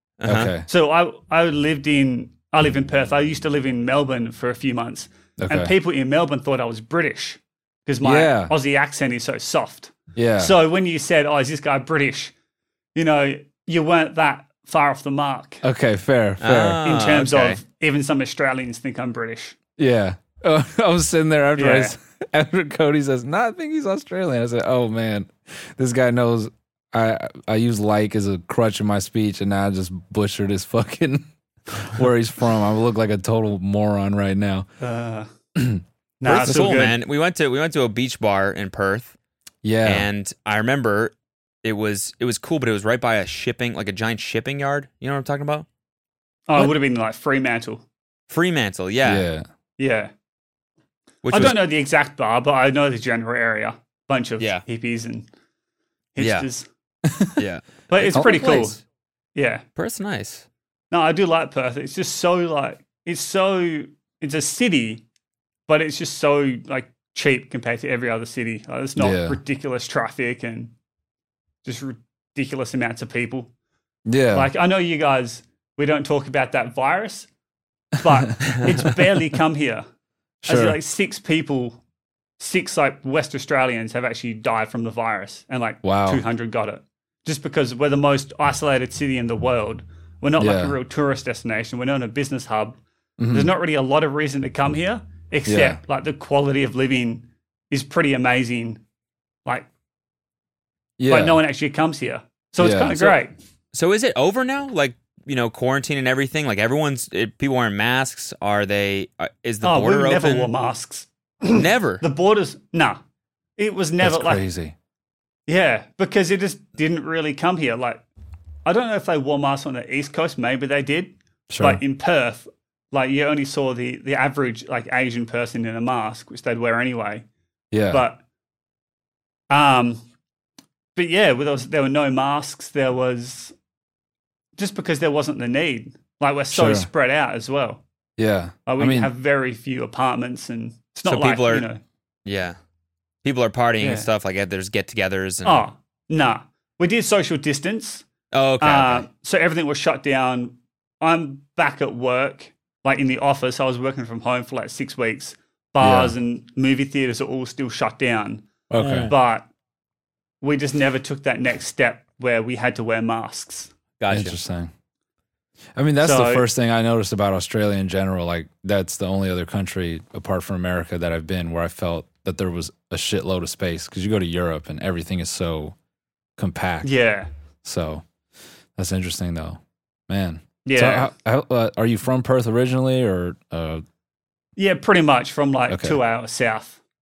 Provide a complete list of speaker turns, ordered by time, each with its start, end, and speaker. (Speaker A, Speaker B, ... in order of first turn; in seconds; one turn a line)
Speaker A: 0.2-0.5
Speaker B: 0.2-0.7
Speaker C: 0.7-12.3
Speaker B: 5.4-5.7
Speaker B: 8.0-8.5
Speaker B: 10.2-10.6
Speaker C: 12.9-15.6
Speaker B: 15.6-16.8
Speaker A: 16.4-17.6
Speaker C: 16.8-19.6
Speaker B: 19.8-34.7
Speaker C: 21.6-22.0
Speaker C: 34.8-35.3
Speaker B: 35.6-35.8
Speaker C: 36.2-37.0
Speaker A: 36.2-39.1
Speaker B: 39.6-40.1
Speaker A: 39.8-45.7
Speaker C: 46.5-47.8
Speaker A: 48.3-49.3
Speaker B: 49.0-49.5
Speaker C: 49.8-50.1
Speaker A: 51.2-51.6
Speaker C: 51.3-55.3
Speaker A: 54.4-54.6
Speaker C: 56.1-56.7
Speaker A: 56.2-56.5
Speaker B: 57.1-57.4
Speaker A: 57.4-58.8
Speaker C: 57.9-58.8
Speaker C: 59.4-59.6
Speaker A: 59.8-60.5
Speaker C: 60.9-65.0
Speaker C: 65.7-70.7
Speaker B: 69.0-69.4
Speaker C: 71.6-73.5
Speaker B: 74.1-74.5
Speaker C: 74.3-77.3
Speaker C: 78.0-79.8
Speaker B: 80.4-80.8
Speaker C: 80.5-81.8
Speaker C: 82.4-92.8
Speaker B: 85.8-86.2
Speaker B: 90.4-90.8
Speaker B: 93.2-93.5
Speaker C: 93.3-98.8
Speaker B: 95.5-95.8
Speaker B: 101.0-101.4
Speaker C: 101.1-103.3
Speaker B: 102.6-103.1
Speaker A: 103.7-110.5
Speaker C: 109.6-113.0
Speaker A: 111.5-112.0
Speaker C: 113.6-114.4
Speaker B: 114.0-114.8
Speaker C: 115.5-118.1
Speaker C: 118.7-127.3
Speaker B: 121.5-121.8
Speaker B: 127.7-128.0
Speaker C: 127.9-128.2
Speaker C: 129.5-130.0
Speaker C: 130.9-133.5
Speaker C: 134.6-137.8
Speaker B: 136.5-136.9
Speaker B: 138.2-139.1
Speaker C: 138.7-141.8
Speaker A: 141.1-141.7
Speaker A: 142.2-142.6
Speaker A: 143.2-145.7
Speaker C: 143.8-144.1
Speaker C: 145.4-148.1
Speaker A: 148.3-149.1
Speaker C: 148.6-158.5
Speaker B: 155.8-156.2
Speaker B: 158.7-159.1
Speaker A: 158.8-159.1
Speaker C: 159.0-159.5
Speaker C: 160.4-163.7
Speaker A: 164.0-164.4
Speaker B: 164.1-164.7
Speaker B: 165.8-175.8
Speaker C: 166.0-166.5
Speaker B: 176.4-176.9
Speaker C: 176.8-177.3
Speaker B: 177.6-178.1
Speaker B: 178.8-183.8
Speaker C: 180.7-181.1
Speaker C: 184.6-186.8
Speaker B: 185.7-186.0